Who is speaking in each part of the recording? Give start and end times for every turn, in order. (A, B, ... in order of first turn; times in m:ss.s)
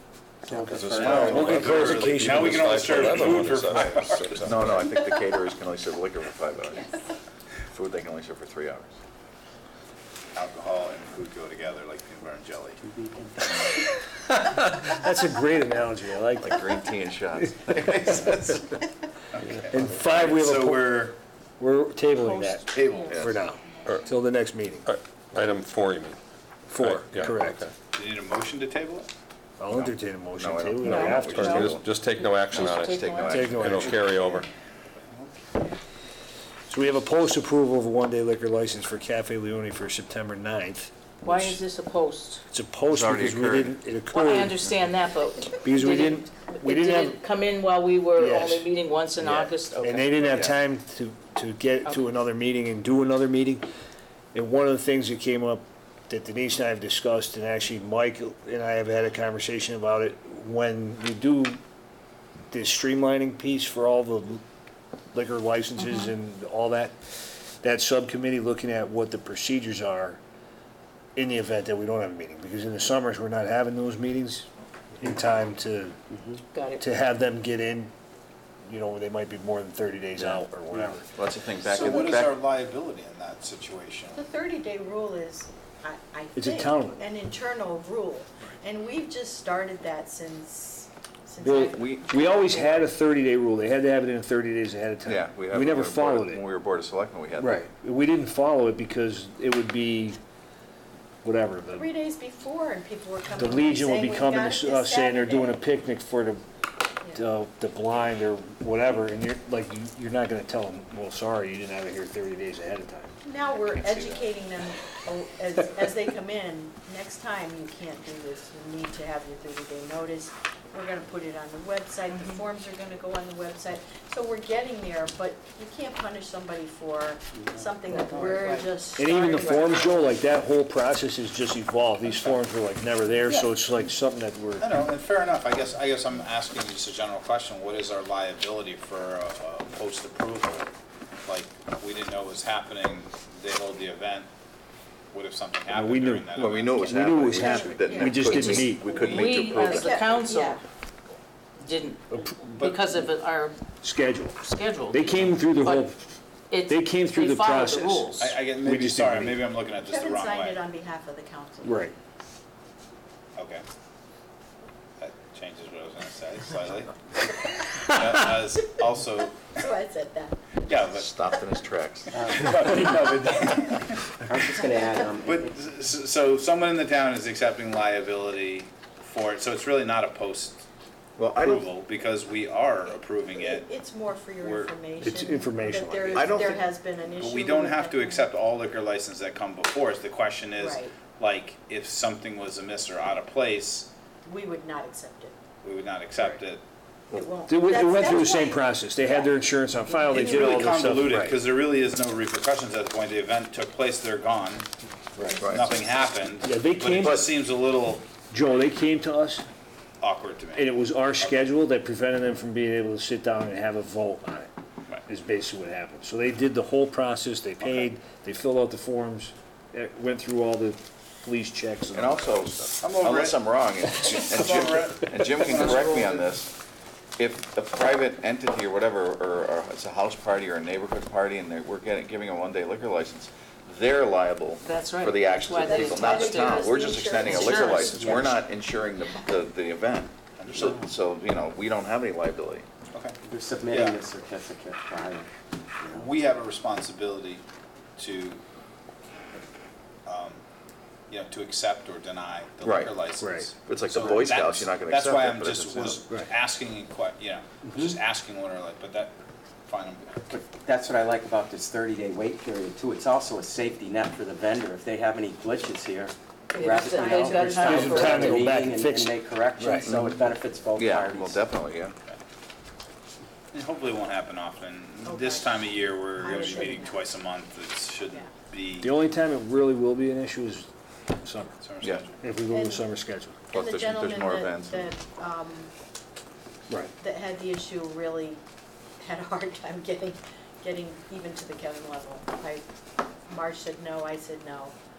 0:00.4-0:01.9 A
0:00.5-0:04.4 B
0:01.0-0:03.6 C
0:01.1-0:04.9 D
0:04.4-0:06.9 E
0:06.7-0:07.1 F
0:07.7-0:08.9 E
0:10.4-0:12.8 B
0:12.8-0:13.5 A
0:13.5-0:13.8 B
0:14.3-0:16.7 C
0:16.4-0:18.3 E
0:17.7-0:18.8 B
0:19.3-0:21.1 B
0:19.7-0:24.9 C
0:22.2-0:23.9 G
0:22.7-0:23.2 B
0:23.1-0:23.4 E
0:24.9-0:26.2 D
0:26.7-0:27.7 C
0:26.8-0:27.7 D
0:27.9-0:29.1 B
0:29.6-0:31.8 C
0:29.7-0:31.9 E
0:30.8-0:33.5 G
0:30.9-0:34.5 D
0:32.5-0:34.4 E
0:33.2-0:34.2 C
0:35.1-0:35.7 B
0:36.7-0:41.6 C
0:41.2-0:42.4 G
0:42.5-0:44.7 C
0:42.9-0:43.8 E
0:44.1-0:50.5 G
0:45.5-0:47.2 C
0:48.2-0:53.6 C
0:54.3-1:01.6 C
1:02.5-1:04.4 C
1:05.1-1:07.0 C
1:07.6-1:10.2 C
1:11.2-1:14.5 C
1:15.0-1:16.0 C
1:16.5-1:16.8 G
1:16.8-1:17.9 C
1:18.6-1:21.1 C
1:21.1-1:22.4 E
1:21.6-1:24.2 B
1:24.1-1:32.9 F
1:26.4-1:27.0 C
1:31.4-1:36.4 C
1:31.5-1:32.6 E
1:35.0-1:37.6 E
1:37.4-1:40.2 C
1:41.2-1:41.9 C
1:41.7-1:45.6 F
1:43.4-1:46.4 C
1:47.1-1:53.2 C
1:53.2-2:10.2 F
1:53.9-1:54.2 E
2:02.1-2:02.5 G
2:07.9-2:08.7 G
2:09.0-2:14.7 C
2:12.0-2:12.5 B
2:14.6-2:20.7 B
2:21.2-2:24.3 B
2:25.1-2:26.9 B
2:25.7-2:29.0 C
2:26.4-2:30.0 E
2:27.3-2:30.6 F
2:28.9-2:30.6 G
2:31.6-2:33.6 G
2:32.1-2:32.4 C
2:32.6-2:32.8 B
2:33.8-2:36.2 C
2:34.4-2:35.9 G
2:36.5-2:38.3 G
2:36.7-2:39.4 C
2:38.2-2:40.6 B
2:39.8-2:41.8 F
2:41.6-2:41.9 C
2:43.4-2:43.6 B
2:45.0-2:47.3 B
2:47.8-2:49.5 B
2:49.5-2:50.4 F
2:50.7-2:51.1 B
2:51.0-2:52.3 E
2:52.1-2:52.9 A
2:52.3-2:54.0 B
2:54.2-2:55.5 A
2:54.5-2:55.1 F
2:55.2-3:00.7 B
3:01.2-3:01.7 E
3:01.4-3:03.7 B
3:03.4-3:08.3 F
3:04.4-3:04.7 B
3:05.0-3:06.6 C
3:06.1-3:06.6 E
3:07.1-3:13.9 B
3:10.6-3:10.9 F
3:14.2-3:15.4 F
3:15.6-3:16.6 B
3:17.1-3:20.9 F
3:17.5-3:21.4 C
3:20.1-3:24.7 B
3:25.4-3:25.7 E
3:25.4-3:28.1 B
3:26.4-3:27.3 C
3:28.3-3:29.4 C
3:30.0-3:31.4 B
3:30.6-3:34.5 C
3:35.1-3:42.6 C
3:41.9-3:46.5 E
3:42.8-3:43.4 B
3:44.0-3:46.3 B
3:47.2-4:02.7 E
3:54.6-3:58.3 G
3:55.5-3:58.4 F
3:57.2-3:58.3 A
3:59.0-3:59.3 F
4:00.4-4:00.8 B
4:03.3-4:05.3 A
4:03.7-4:04.0 B
4:05.8-4:06.1 A
4:05.9-4:07.4 B
4:08.0-4:08.4 B
4:10.1-4:10.4 B
4:11.1-4:19.1 B
4:12.6-4:13.0 E
4:13.2-4:13.5 C
4:13.7-4:16.0 E
4:19.7-4:20.3 B
4:20.3-4:31.4 A
4:26.5-4:28.1 F
4:26.5-4:28.5 G
4:27.6-4:29.9 C
4:29.8-4:30.1 E
4:30.8-4:32.0 E
4:33.5-4:39.0 B
4:35.0-4:37.1 F
4:38.8-4:41.6 C
4:41.6-4:42.2 B
4:42.2-4:43.4 C
4:42.5-4:42.9 F
4:43.5-4:44.9 E
4:43.5-4:45.7 F
4:47.0-4:48.4 F
4:49.0-4:52.6 F
4:53.3-4:54.8 F